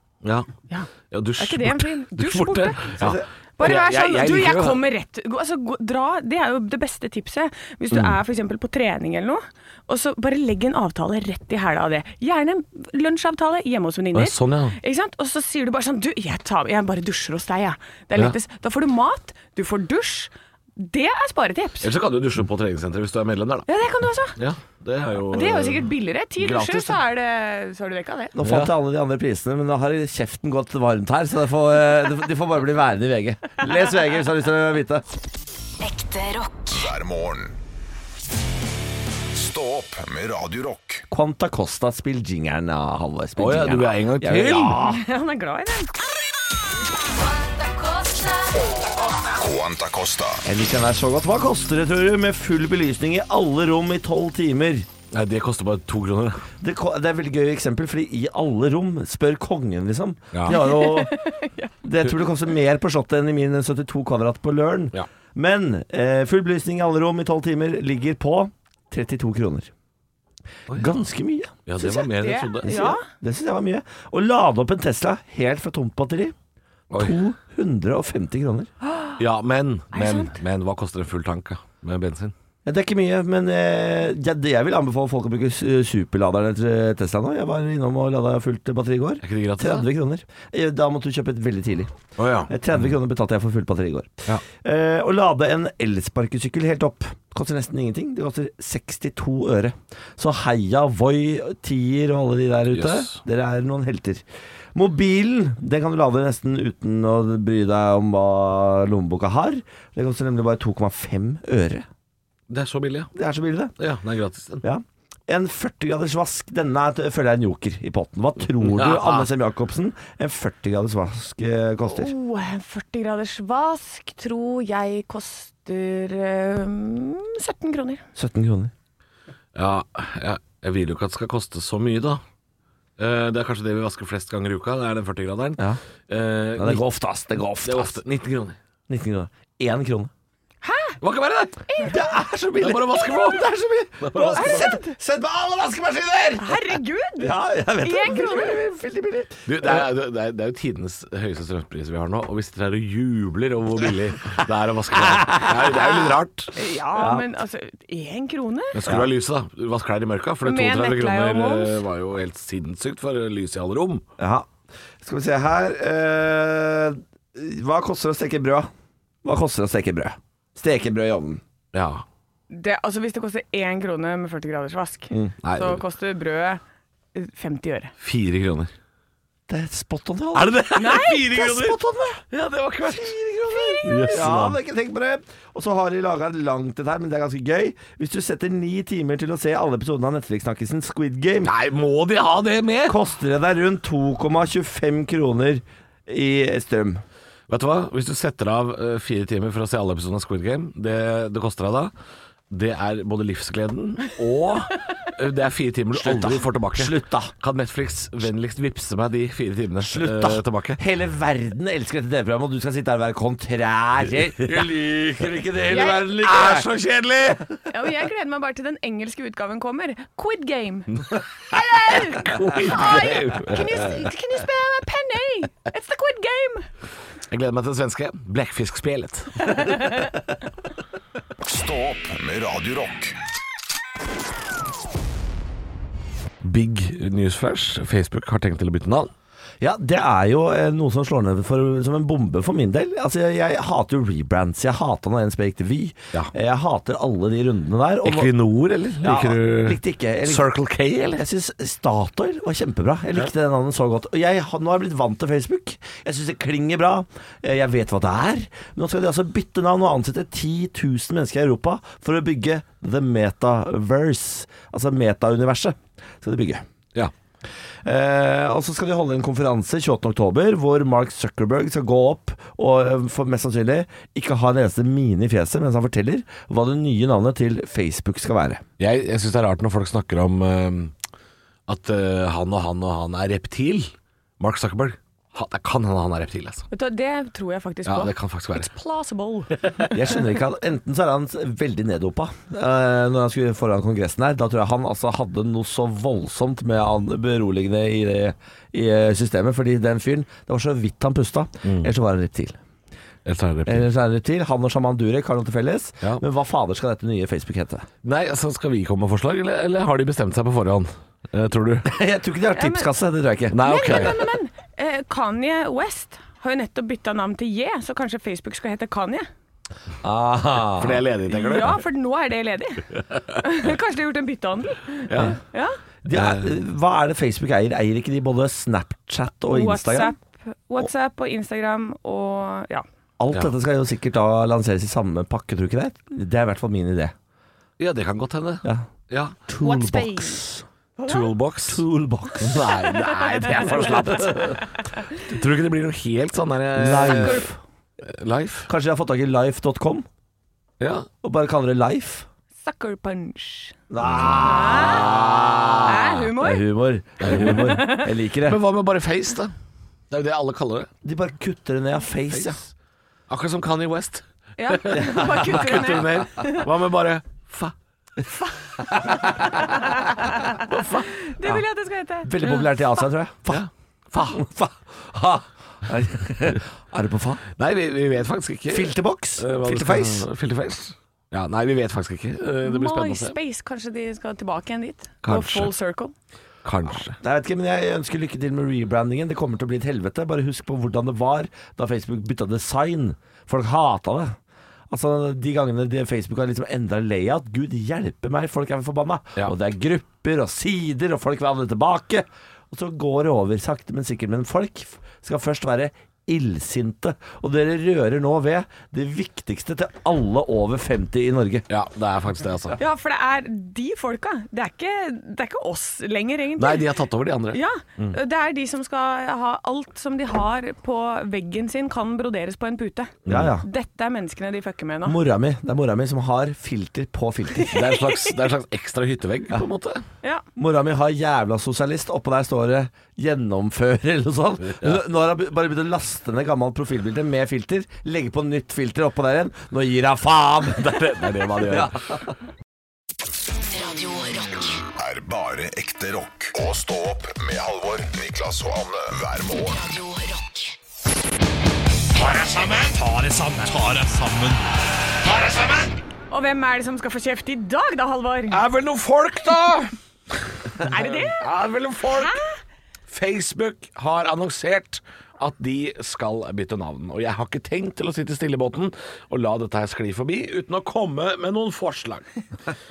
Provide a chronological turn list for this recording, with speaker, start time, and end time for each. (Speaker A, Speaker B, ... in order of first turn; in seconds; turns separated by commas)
Speaker A: 0.2-0.5, Speaker B: 0.7-2.9, Speaker A: 1.1-4.8, Speaker C: 3.0-3.2, Speaker B: 3.6-21.9, Speaker A: 14.1-14.8, Speaker A: 21.8-23.7, Speaker B: 23.7-24.4, Speaker A: 24.4-27.0, Speaker B: 25.3-28.3, Speaker C: 28.3-35.0, Speaker A: 28.4-28.7, Speaker D: 35.8-36.7, Speaker E: 36.7-37.5, Speaker E: 39.3-41.0, Speaker C: 41.1-45.0, Speaker A: 43.4-44.9, Speaker B: 44.8-45.9, Speaker D: 47.6-48.5, Speaker E: 49.4-50.4, Speaker C: 50.4-54.9, Speaker A: 55.1-56.4, Speaker C: 56.6-61.1, Speaker B: 60.5-61.7, Speaker C: 61.8-69.7, Speaker A: 70.7-71.0, Speaker C: 70.8-71.7, Speaker A: 71.7-72.9, Speaker B: 71.8-73.0, Speaker C: 72.6-76.3, Speaker A: 76.9-77.2, Speaker C: 76.9-78.7, Speaker A: 79.2-82.3, Speaker B: 79.9-80.4, Speaker C: 82.6-104.2, Speaker A: 89.2-89.9, Speaker A: 92.2-92.5, Speaker A: 102.7-103.2, Speaker C: 104.7-111.8, Speaker A: 112.5-113.1, Speaker C: 113.1-113.8, Speaker A: 113.8-114.6, Speaker C: 114.6-122.1, Speaker A: 118.6-119.3, Speaker B: 121.9-128.0, Speaker C: 128.1-128.7, Speaker A: 129.5-132.2, Speaker A: 133.0-136.8, Speaker C: 136.6-138.0, Speaker A: 137.6-138.6, Speaker C: 138.9-140.1, Speaker B: 140.6-141.0, Speaker A: 141.0-141.6, Speaker B: 141.7-142.0, Speaker C: 141.8-149.9, Speaker A: 142.6-144.7, Speaker B: 144.4-144.9, Speaker B: 146.4-148.6, Speaker A: 149.5-156.5, Speaker C: 155.0-155.9, Speaker B: 156.5-158.8, Speaker C: 156.9-157.3, Speaker A: 158.7-164.0, Speaker C: 158.8-159.1, Speaker B: 160.4-161.8, Speaker C: 164.2-164.5, Speaker C: 165.0-168.7, Speaker C: 169.2-171.4, Speaker A: 171.7-172.0, Speaker B: 172.5-176.6, Speaker A: 175.4-175.8, Speaker B: 177.1-177.9, Speaker A: 178.0-178.7, Speaker C: 179.5-182.2, Speaker A: 180.3-181.8, Speaker B: 180.8-181.3, Speaker A: 182.3-184.6, Speaker C: 182.9-191.5, Speaker B: 183.5-184.1, Speaker A: 191.4-193.0, Speaker C: 192.8-197.0, Speaker A: 197.5-201.9, Speaker A: 202.5-210.8, Speaker C: 205.9-207.3, Speaker C: 209.8-216.7, Speaker A: 215.8-217.5, Speaker B: 217.7-220.9, Speaker B: 221.5-226.7, Speaker A: 221.9-224.1, Speaker A: 227.3-229.8, Speaker B: 229.5-230.1, Speaker E: 231.4-233.2, Speaker A: 236.4-239.1, Speaker C: 239.6-248.3, Speaker A: 248.0-251.2, Speaker C: 249.0-250.5, Speaker C: 251.1-266.6, Speaker C: 267.8-278.6, Speaker A: 278.8-280.9, Speaker A: 281.7-286.7, Speaker B: 286.7-289.5, Speaker A: 287.9-288.7, Speaker C: 289.9-302.6, Speaker A: 301.6-301.9, Speaker A: 303.2-303.8, Speaker C: 303.6-307.9, Speaker A: 308.0-311.9, Speaker C: 311.8-314.1, Speaker B: 312.5-312.9, Speaker A: 313.5-314.1, Speaker B: 313.6-319.3, Speaker C: 320.0-321.0, Speaker A: 320.7-321.8, Speaker B: 321.3-325.8, Speaker A: 325.1-325.4, Speaker C: 326.0-330.1, Speaker A: 326.1-326.5, Speaker B: 329.5-332.8, Speaker C: 333.2-337.1, Speaker A: 337.8-339.4, Speaker C: 339.5-340.6, Speaker B: 339.6-340.4, Speaker B: 341.0-341.3, Speaker A: 341.1-341.8, Speaker C: 341.6-344.6, Speaker A: 342.4-347.5, Speaker C: 346.7-347.6, Speaker B: 347.2-347.5, Speaker A: 348.0-348.7, Speaker C: 348.7-350.1, Speaker A: 350.8-351.1, Speaker C: 351.2-352.3, Speaker B: 352.6-353.8, Speaker C: 353.9-358.6, Speaker A: 354.1-356.1, Speaker B: 354.4-355.1, Speaker B: 355.8-356.6, Speaker A: 357.2-357.8, Speaker B: 357.4-358.1, Speaker A: 358.4-359.5, Speaker A: 360.1-360.9, Speaker C: 361.0-362.6, Speaker A: 362.3-362.6, Speaker A: 363.3-367.7, Speaker B: 364.6-366.6, Speaker C: 369.1-369.4, Speaker B: 369.4-373.0, Speaker A: 370.7-371.1, Speaker C: 372.2-373.6, Speaker A: 373.5-374.4, Speaker C: 374.1-377.4, Speaker A: 377.6-383.4, Speaker C: 378.7-380.3, Speaker B: 382.6-386.1, Speaker A: 385.2-385.7, Speaker A: 386.6-387.2, Speaker C: 387.2-394.4, Speaker C: 394.9-411.7, Speaker A: 411.7-412.8, Speaker B: 412.8-416.9, Speaker A: 416.6-417.6, Speaker B: 417.5-425.2, Speaker A: 423.2-423.5, Speaker C: 423.3-423.6, Speaker C: 425.0-427.8, Speaker A: 427.7-430.0, Speaker B: 427.7-428.1, Speaker C: 430.6-442.2, Speaker A: 434.6-435.0, Speaker A: 440.8-442.2, Speaker D: 443.7-444.8, Speaker E: 444.9-449.8, Speaker D: 449.8-450.7, Speaker A: 452.1-454.7, Speaker A: 455.2-456.0, Speaker B: 456.3-458.6, Speaker A: 458.5-459.9, Speaker A: 460.8-462.4, Speaker B: 460.8-461.4, Speaker B: 462.1-462.4, Speaker A: 463.1-472.3